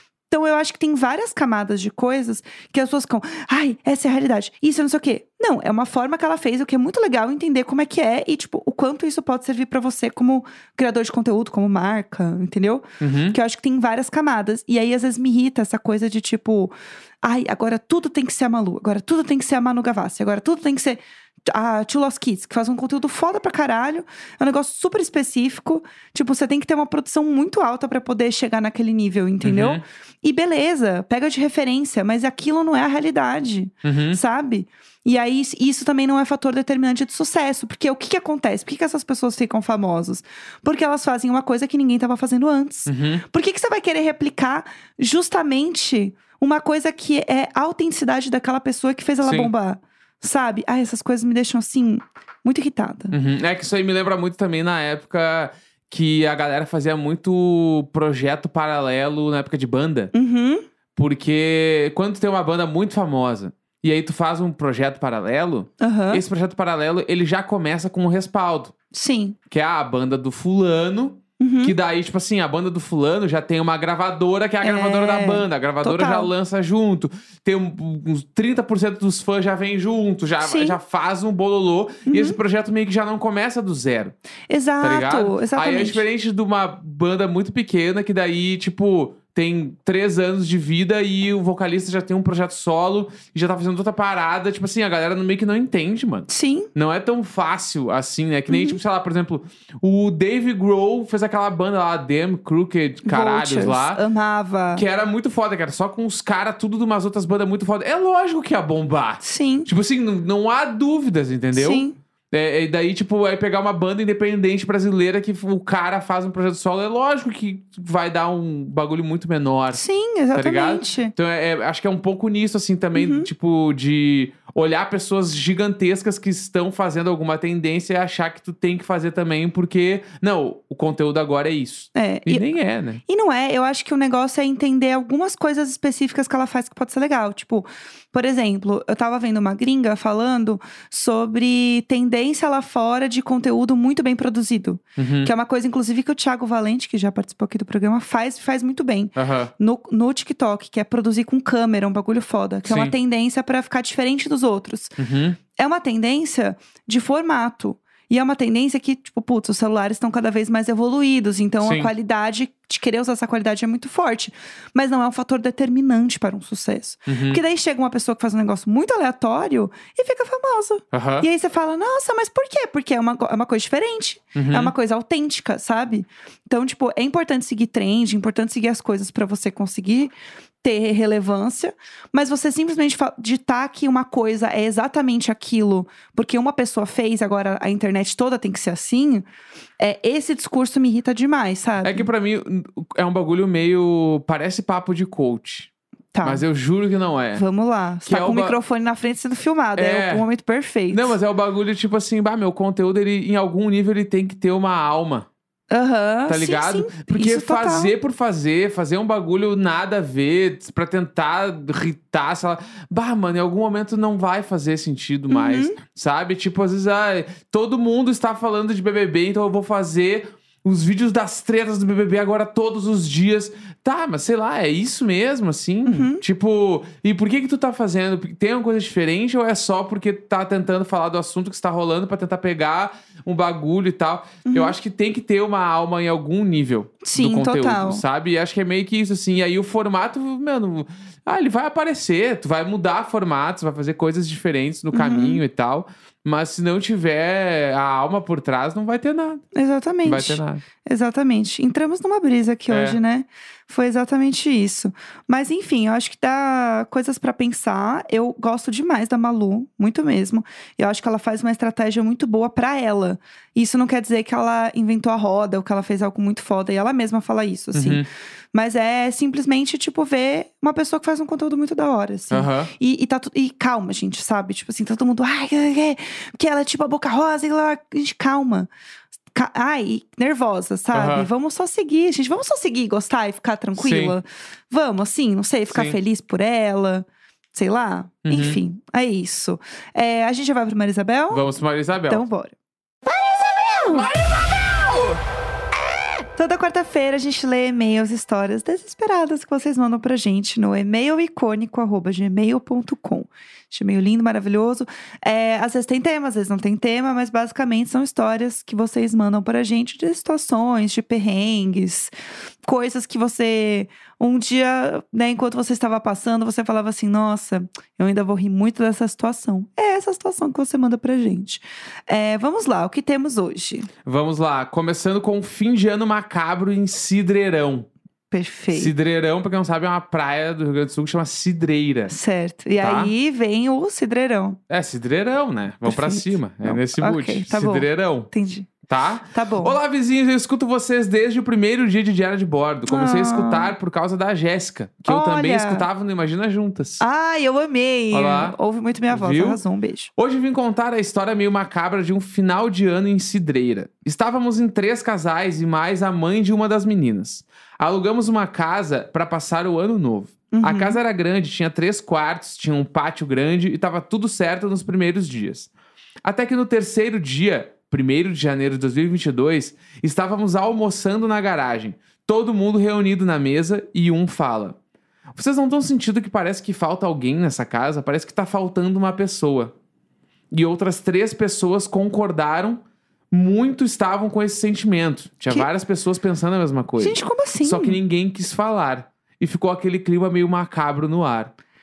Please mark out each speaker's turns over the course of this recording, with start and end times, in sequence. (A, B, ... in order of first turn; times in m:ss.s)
0:00.3-0:53.2 A
0:13.0-0:13.4 B
0:29.4-0:29.8 B
0:33.8-0:34.2 B
0:42.9-0:43.2 B
0:49.2-0:49.5 B
0:53.1-1:00.1 B
1:00.1-1:00.6 A
1:01.0-1:08.7 B
1:05.8-1:06.2 A
1:08.9-1:09.4 A
1:09.5-1:24.1 B
1:11.4-1:11.8 A
1:14.6-1:16.3 A
1:20.4-1:20.8 A
1:22.1-1:22.4 A
1:24.5-1:26.0 A
1:24.8-1:44.0 B
1:36.3-1:36.7 A
1:38.5-1:38.8 A
1:43.0-1:44.8 A
1:44.7-1:59.8 B
1:49.2-1:49.7 A
1:51.5-1:51.9 A
1:59.7-2:01.1 A
2:00.3-2:13.0 B
2:02.9-2:03.3 A
2:11.9-2:12.5 A
2:13.1-2:35.0 A
2:25.0-2:25.3 B
2:29.2-2:29.5 B
2:32.6-2:32.9 B
2:35.0-2:35.4 B
2:35.6-3:09.2 A
2:41.6-2:41.9 B
2:47.1-2:47.4 B
2:50.9-2:51.3 B
2:54.4-2:54.7 B
3:09.8-3:12.1 A
3:11.8-3:15.7 B
3:16.1-3:16.4 A
3:16.2-3:17.4 B
3:17.3-3:21.2 A
3:18.0-3:18.6 B
3:19.8-3:20.2 B
3:20.9-3:25.3 B
3:25.7-3:27.9 A
3:26.3-4:09.4 B
3:35.3-3:35.8 A
3:45.8-3:46.2 A
3:54.5-3:54.8 A
3:57.0-3:58.0 A
4:04.9-4:05.4 A
4:09.5-4:38.7 A
4:10.0-4:10.6 B
4:12.7-4:13.0 B
4:27.7-4:28.0 B
4:32.3-4:32.7 B
4:39.3-4:51.4 A
4:40.9-4:41.3 B
4:43.8-4:44.2 B
4:45.7-4:46.0 B
4:48.2-4:48.6 B
4:51.3-4:52.2 B
4:52.1-4:52.5 A
4:53.7-4:55.2 B
4:53.8-4:54.1 A
4:56.4-5:12.1 A
5:12.6-5:23.9 A
5:24.0-5:27.9 B
5:28.3-5:28.9 A
5:28.7-5:32.1 B
5:32.1-5:34.6 A
5:32.8-5:33.1 B
5:34.7-5:38.3 B
5:35.8-5:38.7 A
5:38.9-5:47.0 B
5:39.3-5:39.8 A
5:42.9-5:43.7 A
5:45.1-5:45.9 A
5:47.0-5:50.1 A
5:48.1-5:48.6 B
5:49.1-5:49.6 B
5:50.2-6:05.7 B
6:00.5-6:01.0 A
6:06.2-6:14.8 B
6:15.4-6:19.7 B
6:20.5-6:31.5 B
6:27.0-6:28.0 A